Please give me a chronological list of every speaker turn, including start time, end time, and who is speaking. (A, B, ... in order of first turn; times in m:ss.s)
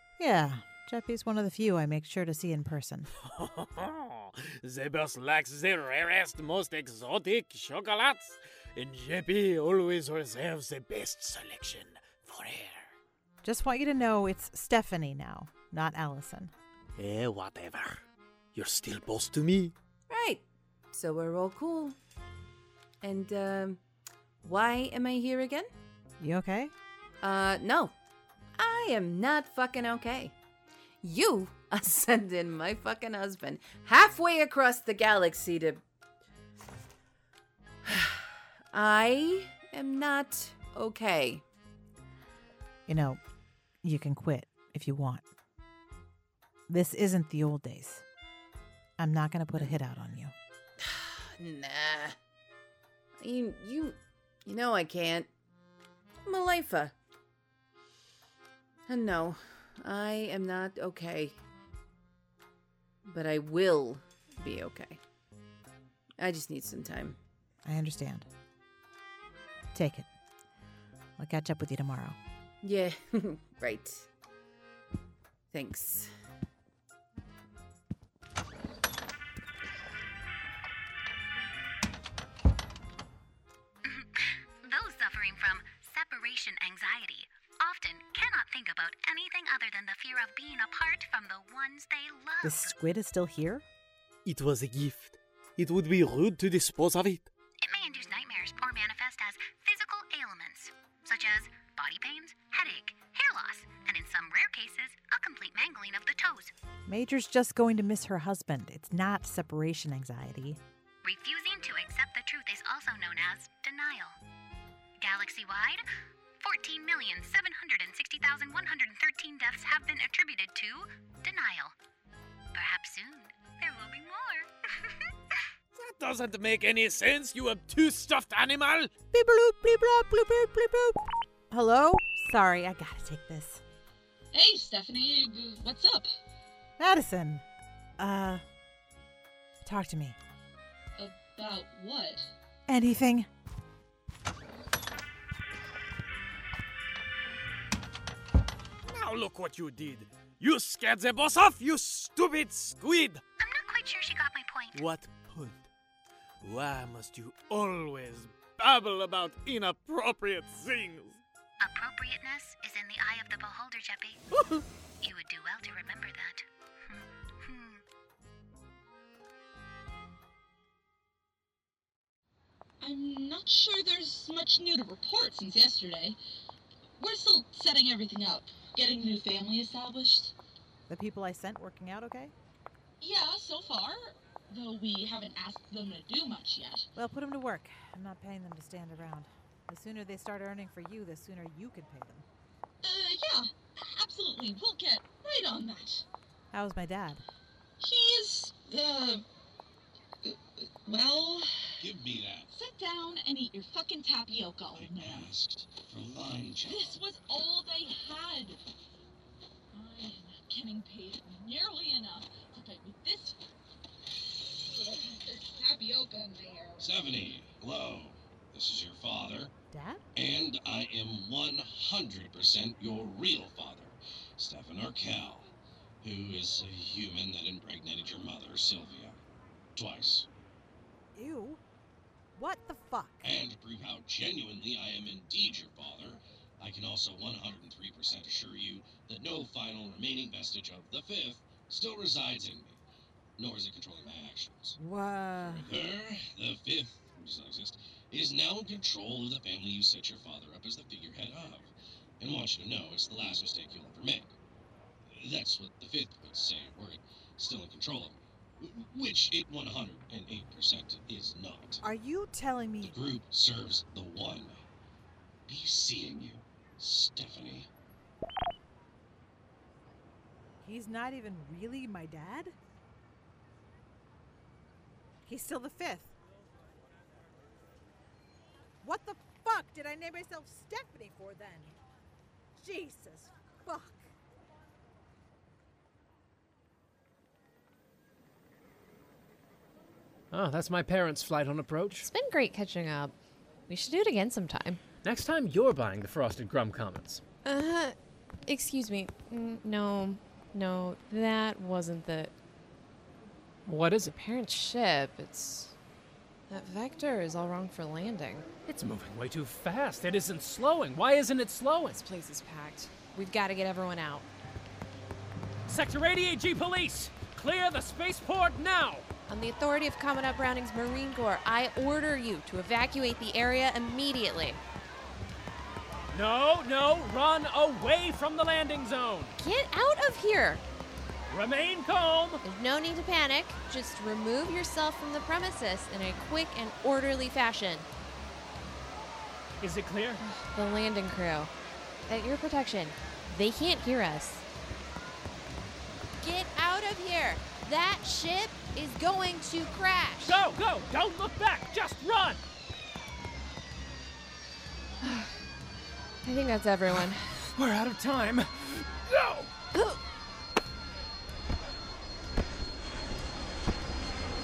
0:00.2-0:03.1 A
0:03.2-0:12.9 B
0:13.4-0:16.5 A
0:17.0-0:18.0 B
0:18.5-0:19.7 B
0:20.1-0:22.0 C
0:23.0-0:23.8 C
0:24.4-0:25.7 C
0:26.2-0:26.7 A
0:27.2-0:27.9 C
0:28.6-0:30.3 C
0:31.0-0:35.8 C
0:37.8-0:41.4 C
0:42.9-0:43.2 A
0:43.8-0:45.2 A
0:46.7-0:48.0 A
0:49.0-0:50.3 A
0:50.8-0:52.2 C
0:53.2-0:55.3 C
0:56.2-0:56.9 C
0:58.9-1:01.4 C
1:03.1-1:05.0 C
1:06.2-1:07.2 C
1:07.6-1:08.3 A
1:09.7-1:10.1 A
1:11.2-1:12.2 A
1:12.6-1:14.1 C
1:15.5-1:16.1 C
1:23.8-1:32.7 D
1:32.4-1:33.6 A
1:34.2-1:37.3 B
1:37.6-1:46.5 D
1:46.9-1:50.6 A
1:51.0-1:54.2 D
1:55.0-1:55.8 D
1:56.4-2:01.8 D
2:02.5-2:04.9 D
2:05.7-2:08.9 B
2:09.1-2:13.6 A
2:14.3-2:16.2 E
2:16.8-2:17.4 A
2:18.0-2:18.4 A
2:19.6-2:20.2 A
2:21.0-2:22.3 E
2:22.7-2:23.3 A
2:28.8-2:33.2 B
2:33.4-2:34.9 D
2:34.7-2:35.7 B
2:36.4-2:41.2 B
2:41.6-2:44.2 D
2:44.3-2:44.6 B
2:45.0-2:47.8 D
2:52.8-2:56.2 E
2:57.0-3:00.3 E
3:00.9-3:02.3 A
3:03.0-3:06.9 E
3:07.0-3:12.3 A
3:12.8-3:16.0 E
3:16.5-3:17.2 A
3:17.8-3:19.2 E
3:20.2-3:21.9 E
3:21.8-3:22.5 F
3:22.5-3:25.3 E
3:24.7-3:27.0 F
3:26.7-3:28.6 E
3:29.7-3:33.4 E
3:34.4-3:36.9 E
3:36.8-3:39.5 F
3:39.7-3:40.0 A
3:40.1-3:45.5 F
3:46.0-3:49.2 F
3:49.8-3:50.3 F
3:51.1-3:51.6 A
3:52.4-3:53.3 A
3:53.2-4:02.8 F
4:03.4-4:04.8 F
4:04.8-4:05.7 A
4:05.4-4:14.3 F
4:15.1-4:21.8 F
4:21.8-4:23.0 A
4:22.8-4:24.6 F
4:25.5-4:27.7 F
4:30.6-4:32.6 A
4:35.3-4:36.1 A
4:38.8-4:41.8 A
4:42.6-4:44.1 A
4:50.3-4:52.1 G
4:52.0-4:53.1 H
4:53.7-4:54.8 H
4:55.0-4:57.2 G
4:57.4-4:58.0 H
4:58.5-5:02.3 H
5:03.6-5:04.1 G
5:04.1-5:05.7 H
5:06.5-5:08.5 H
5:08.7-5:12.0 G
5:11.9-5:14.3 H
5:15.6-5:19.0 G
5:19.3-5:24.6 H
5:26.1-5:29.3 G
5:29.4-5:30.6 H
5:31.3-5:32.4 G
5:32.4-5:37.9 H
5:39.6-5:40.2 G
5:40.5-5:41.5 H
5:42.1-5:44.4 H
5:46.2-5:50.4 H
5:50.2-5:52.4 G
5:55.0-5:55.3 H
5:56.2-5:57.5 H
5:57.5-5:59.5 G
5:59.7-6:00.0 H